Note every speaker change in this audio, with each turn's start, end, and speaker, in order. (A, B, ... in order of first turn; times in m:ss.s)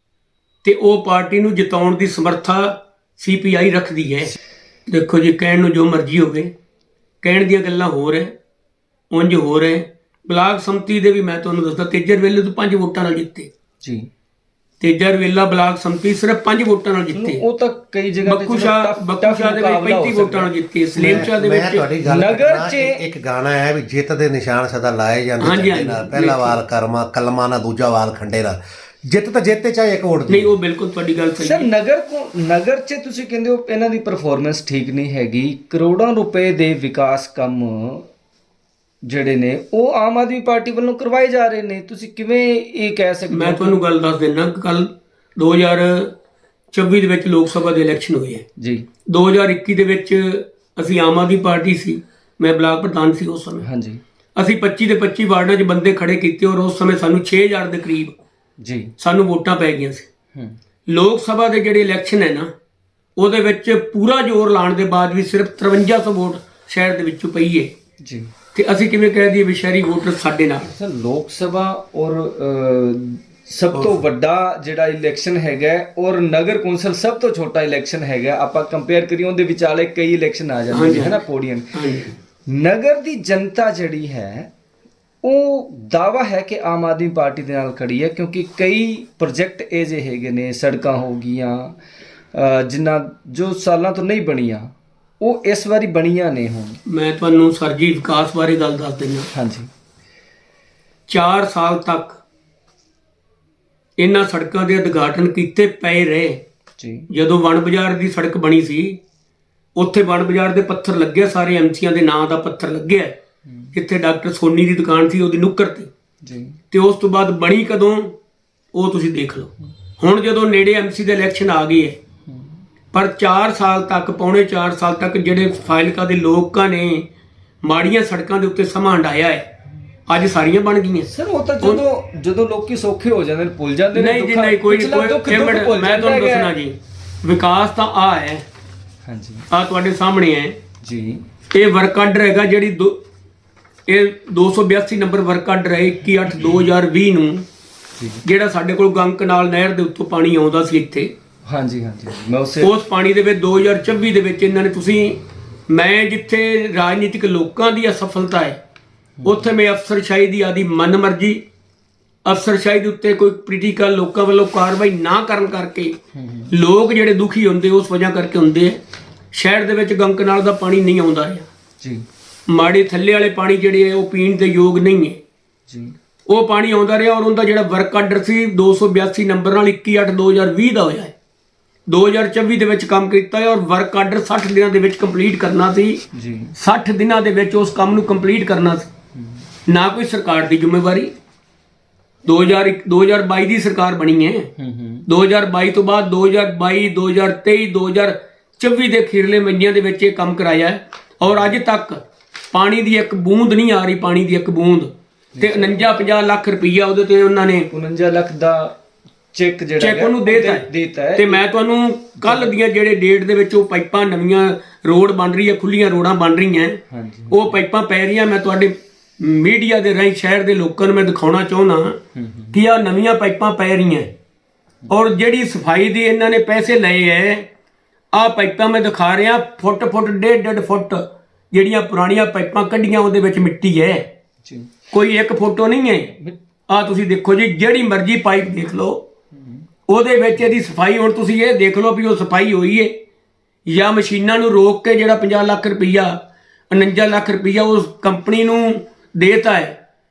0:00.6-0:04.4 A
0:04.9-0:06.5 A
0:07.2-0:08.3 A
0:09.1-0:13.5 A
0:13.8-0:14.1 B
0:14.8-0:17.4 A
0:17.1-0:20.5 B
0:18.3-0:21.9 A
0:21.0-0:30.5 C
0:22.0-0:23.0 B
0:25.4-0:26.6 A
0:30.3-0:31.7 A
0:31.4-0:38.1 B
0:39.0-0:43.8 B
0:43.3-0:46.1 A
0:46.7-0:48.4 A
0:48.6-0:48.9 B
0:49.1-0:53.6 A
0:53.6-0:54.0 B
0:54.4-0:58.2 A
0:58.6-0:58.9 B
0:59.0-1:00.1 A
1:00.9-1:02.5 A
1:03.2-1:07.7 A
1:08.0-1:08.3 B
1:08.6-1:10.7 A
1:10.7-1:21.8 B
1:20.7-1:21.2 A
1:21.7-1:22.1 A
1:22.5-1:24.5 B
1:25.2-1:31.8 B
1:32.3-1:36.8 B
1:36.9-1:39.3 A
1:39.3-1:39.7 B
1:41.1-1:42.2 A
1:44.0-1:46.4 A
1:46.8-1:47.1 B
1:47.1-1:49.0 A
1:49.8-1:53.2 A
1:53.5-1:53.7 B
1:53.7-1:55.9 A
1:56.2-1:56.6 B
1:56.7-1:58.2 A
1:58.7-2:02.0 A
2:02.9-2:07.1 A
2:07.6-2:09.5 A
2:10.1-2:11.1 A
2:11.1-2:16.5 B
2:14.0-2:18.4 A
2:19.1-2:19.5 B
2:19.5-2:20.6 A
2:20.8-2:21.2 B
2:21.5-2:23.0 A
2:23.9-2:27.4 A
2:28.2-2:31.1 A
2:31.5-2:32.7 B
2:32.6-2:38.6 A
2:39.2-2:41.4 A
2:42.2-2:46.0 A
2:46.1-2:46.5 B
2:46.5-2:48.8 A
2:49.3-2:51.5 A
2:52.5-2:55.2 A
2:55.7-2:56.0 B
2:56.3-3:01.1 A
3:01.9-3:06.1 A
3:06.1-3:06.5 B
3:06.6-3:08.9 A
3:09.7-3:11.1 A
3:12.3-3:14.5 A
3:14.6-3:15.1 B
3:15.1-3:27.7 A
3:25.4-3:25.8 B
3:27.7-3:28.8 B
3:29.3-3:31.4 B
3:29.8-3:42.0 A
3:32.2-3:32.5 B
3:36.9-3:37.5 B
3:42.2-3:42.5 B
3:42.5-3:44.1 A
3:44.9-3:47.5 A
3:48.1-3:54.0 A
3:54.4-3:54.7 B
3:54.9-3:56.2 A
3:56.7-3:59.0 A
3:59.3-3:59.6 B
3:59.9-4:03.0 A
4:03.7-4:06.2 A
4:06.7-4:09.8 A